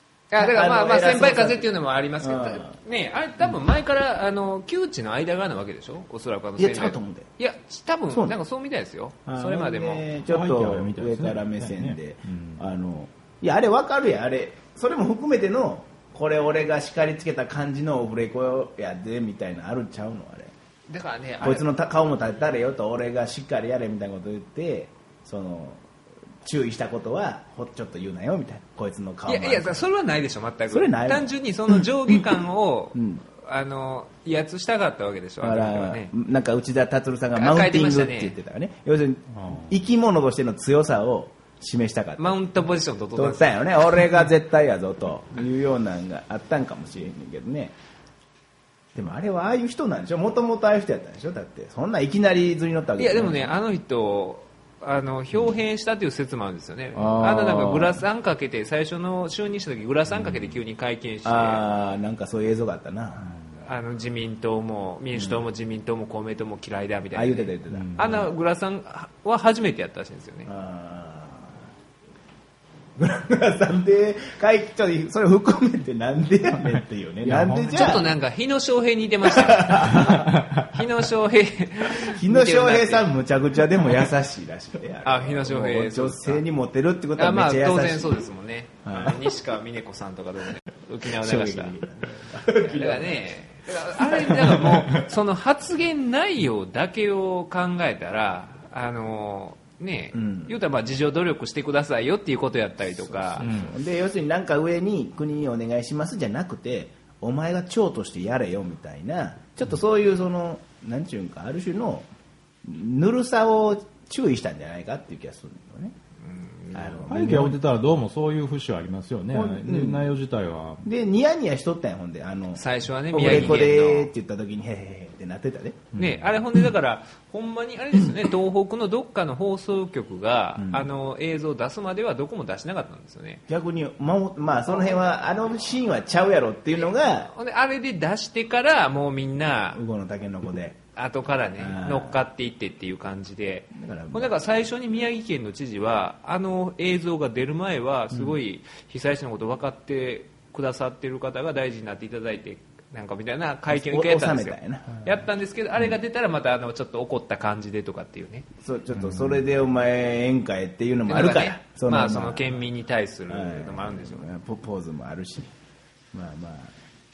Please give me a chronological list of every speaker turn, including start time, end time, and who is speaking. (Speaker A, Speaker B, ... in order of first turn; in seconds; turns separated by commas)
Speaker A: 0.3-10.1, Speaker B: 0.4-2.8, Speaker B: 6.6-7.3, Speaker B: 8.1-8.4, Speaker B: 9.3-20.5, Speaker C: 10.3-12.7, Speaker A: 20.9-21.7, Speaker B: 21.4-25.8, Speaker B: 26.4-29.8, Speaker A: 29.3-36.1, Speaker B: 30.7-32.2, Speaker B: 33.0-33.2, Speaker B: 35.4-42.5, Speaker A: 37.4-38.4, Speaker C: 39.3-39.8, Speaker A: 42.2-44.0, Speaker B: 43.1-47.8, Speaker B: 48.9-53.6, Speaker A: 53.0-61.6, Speaker B: 56.9-58.0, Speaker B: 61.2-63.3, Speaker A: 63.6-70.5, Speaker B: 65.1-65.5, Speaker B: 67.1-68.3, Speaker C: 67.7-68.2, Speaker B: 70.5-71.6, Speaker B: 73.0-78.1, Speaker C: 77.2-78.0, Speaker A: 77.6-83.1, Speaker B: 79.2-80.3, Speaker C: 80.0-80.7, Speaker B: 82.0-88.2, Speaker A: 85.0-86.4, Speaker A: 87.2-91.9, Speaker B: 88.8-89.3, Speaker B: 91.0-93.3, Speaker A: 92.5-103.5, Speaker B: 93.9-94.7, Speaker B: 100.1-100.6, Speaker B: 102.9-112.1, Speaker C: 103.4-103.8, Speaker B: 112.6-116.0, Speaker A: 116.2-117.1, Speaker B: 116.7-117.6, Speaker C: 117.1-120.9, Speaker B: 119.3-120.1, Speaker B: 120.8-125.9, Speaker A: 122.6-124.1, Speaker C: 125.9-126.4, Speaker A: 126.0-133.4, Speaker B: 130.6-130.9, Speaker B: 133.5-137.3, Speaker A: 136.8-139.8, Speaker B: 139.7-140.8, Speaker A: 141.0-158.5, Speaker B: 141.6-142.2, Speaker B: 143.7-144.3, Speaker B: 153.7-155.1, Speaker B: 158.6-162.6, Speaker A: 161.1-164.3, Speaker B: 163.3-165.5, Speaker B: 166.1-166.7